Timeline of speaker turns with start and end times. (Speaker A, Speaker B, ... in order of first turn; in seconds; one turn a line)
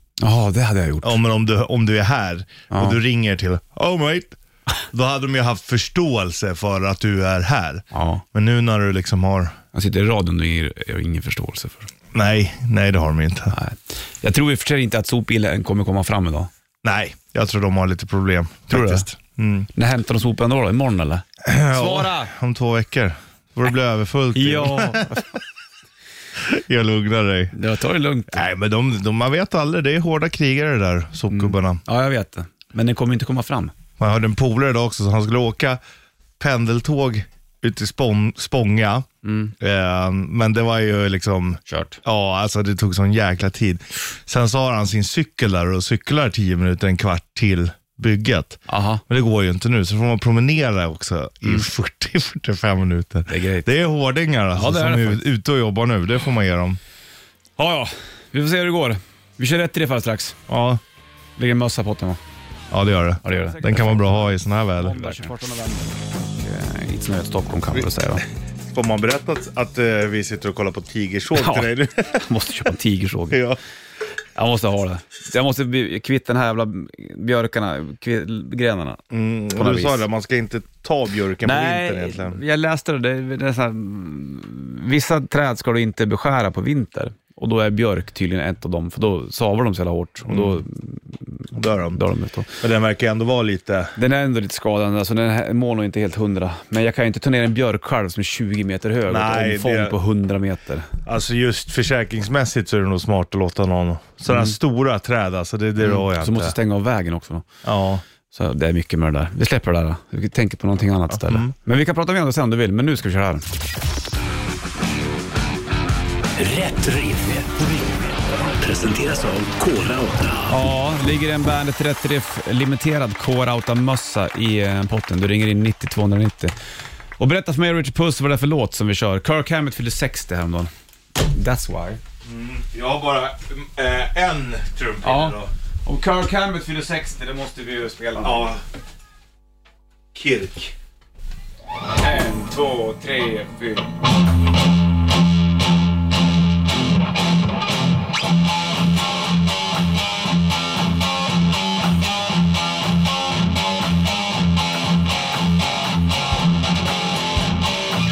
Speaker A: 0.2-1.2
Speaker B: 1.0-4.4
Speaker A: 2.7-3.0
Speaker B: 4.9-9.6
Speaker A: 7.9-8.2
Speaker A: 9.7-11.9
Speaker B: 12.1-13.6
Speaker A: 13.5-16.5
Speaker B: 16.8-19.7
Speaker A: 18.7-19.1
Speaker A: 19.8-22.3
Speaker B: 21.4-25.4
Speaker A: 24.4-25.3
Speaker B: 26.4-27.6
Speaker A: 27.5-28.4
Speaker B: 28.3-31.8
Speaker A: 31.3-33.7
Speaker B: 34.0-35.8
Speaker B: 36.4-39.1
Speaker A: 39.2-39.5
Speaker B: 39.6-56.8
Speaker A: 41.7-42.0
Speaker A: 48.7-49.0
Speaker A: 53.3-53.7
Speaker A: 54.5-55.2
Speaker A: 57.6-60.4
Speaker B: 60.5-60.8
Speaker A: 61.4-62.2
Speaker B: 62.7-65.2
Speaker A: 63.2-68.2
Speaker B: 68.7-72.3
Speaker A: 71.3-73.4
Speaker B: 73.3-73.6
Speaker A: 74.3-79.0
Speaker B: 79.1-82.4
Speaker A: 79.5-80.0
Speaker A: 81.4-92.6
Speaker B: 90.3-90.6
Speaker B: 91.5-92.0
Speaker B: 92.6-94.0
Speaker A: 94.0-100.9
Speaker B: 99.1-100.0
Speaker B: 101.0-106.5
Speaker A: 104.3-104.6
Speaker A: 105.8-107.5
Speaker B: 107.6-108.0
Speaker A: 108.3-113.5
Speaker B: 111.1-111.5
Speaker C: 116.4-120.5
Speaker A: 120.5-126.5
Speaker A: 127.2-132.0
Speaker B: 132.2-135.5
Speaker A: 135.0-138.5
Speaker B: 138.2-138.6
Speaker B: 140.1-140.7
Speaker A: 142.0-143.9